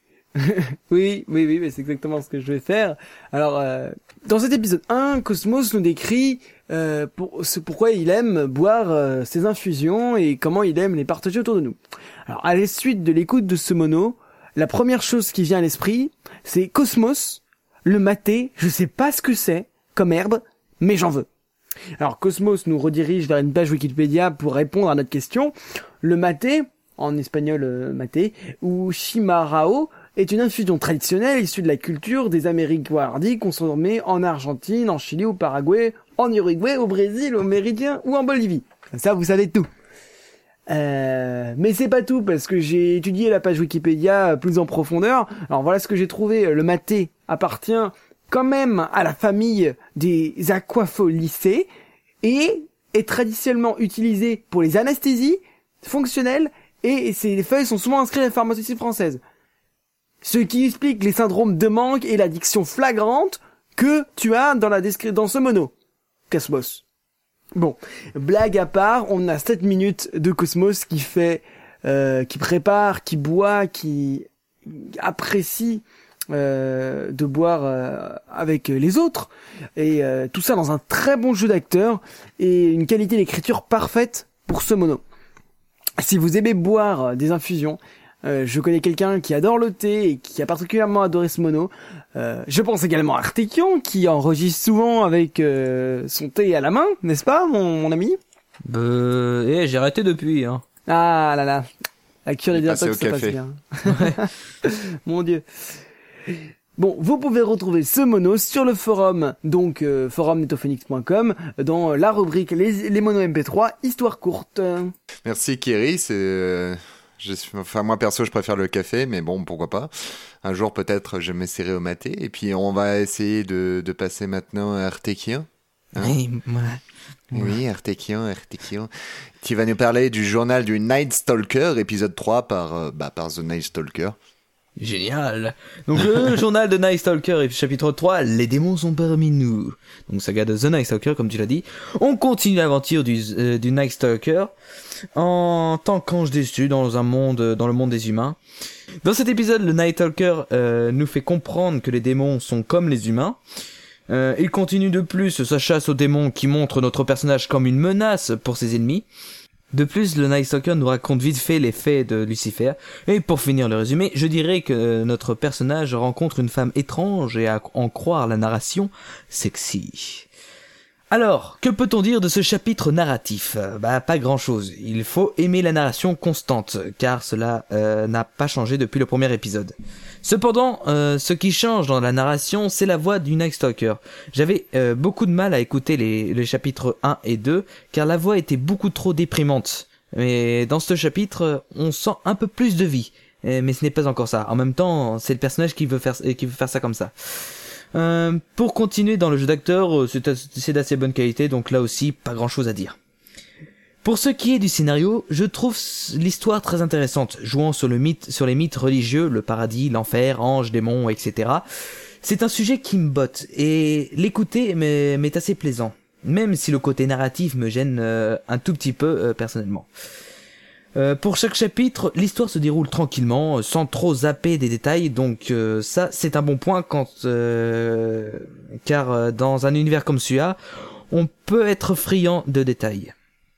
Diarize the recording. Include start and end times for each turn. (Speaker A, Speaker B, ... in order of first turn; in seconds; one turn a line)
Speaker A: 0.4-21.3
Speaker A: 22.0-39.7
Speaker A: 40.7-51.7
Speaker A: 52.2-59.2
Speaker A: 60.2-65.7
Speaker A: 66.3-66.8
Speaker A: 67.5-85.0
Speaker A: 86.0-98.2
Speaker B: 98.7-100.6
Speaker A: 100.9-101.7
Speaker A: 102.2-105.4
Speaker C: 102.5-103.4
Speaker B: 103.9-104.2
Speaker A: 106.8-114.9
Speaker C: 115.2-119.9
Speaker C: 120.4-126.2
Speaker B: 126.0-126.8
Speaker C: 127.3-128.9
Speaker C: 129.4-134.2
Speaker B: 134.8-144.5
Speaker B: 145.1-148.4
Speaker B: 149.0-153.4
Speaker B: 154.1-159.1
Speaker B: 159.7-170.2
Speaker B: 171.1-203.0
Speaker B: 204.0-211.6
Speaker B: 212.2-219.9
Speaker B: 220.9-230.6
Speaker B: 231.1-233.1